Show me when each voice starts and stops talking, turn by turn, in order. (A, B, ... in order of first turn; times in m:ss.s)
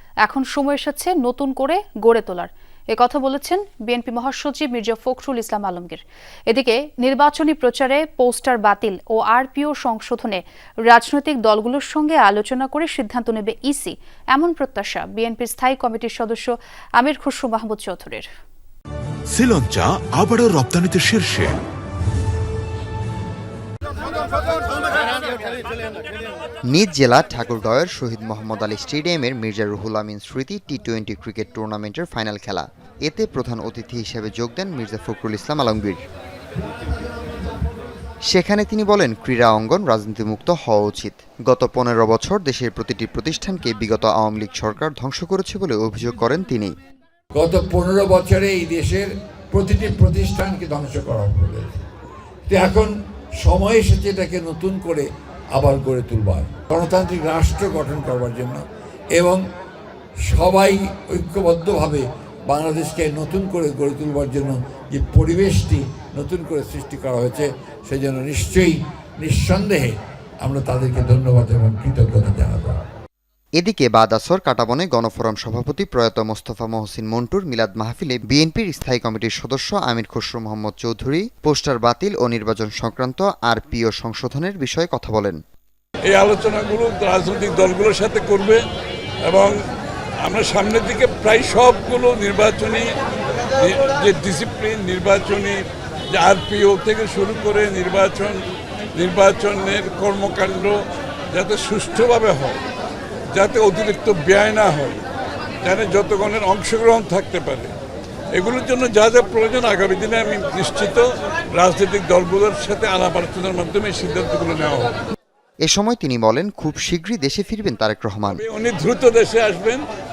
0:00.2-0:18.3 A
0:19.3-0:21.6 B
0:26.7-0:36.0 C
0:38.3-0:46.7 C
0:47.4-0:51.8 D
0:52.5-0:59.4 D
1:00.2-1:12.8 D
1:13.6-1:25.4 C
1:26.1-1:28.6 E
1:29.3-1:29.5 E
1:30.3-1:32.9 E
1:33.6-1:35.6 E
1:36.1-1:38.4 E
1:39.0-1:40.8 E
1:41.3-1:42.6 E
1:43.3-1:45.0 E
1:45.6-1:47.7 E
1:48.4-1:55.0 E
1:55.6-1:58.4 C
1:58.3-1:59.8 E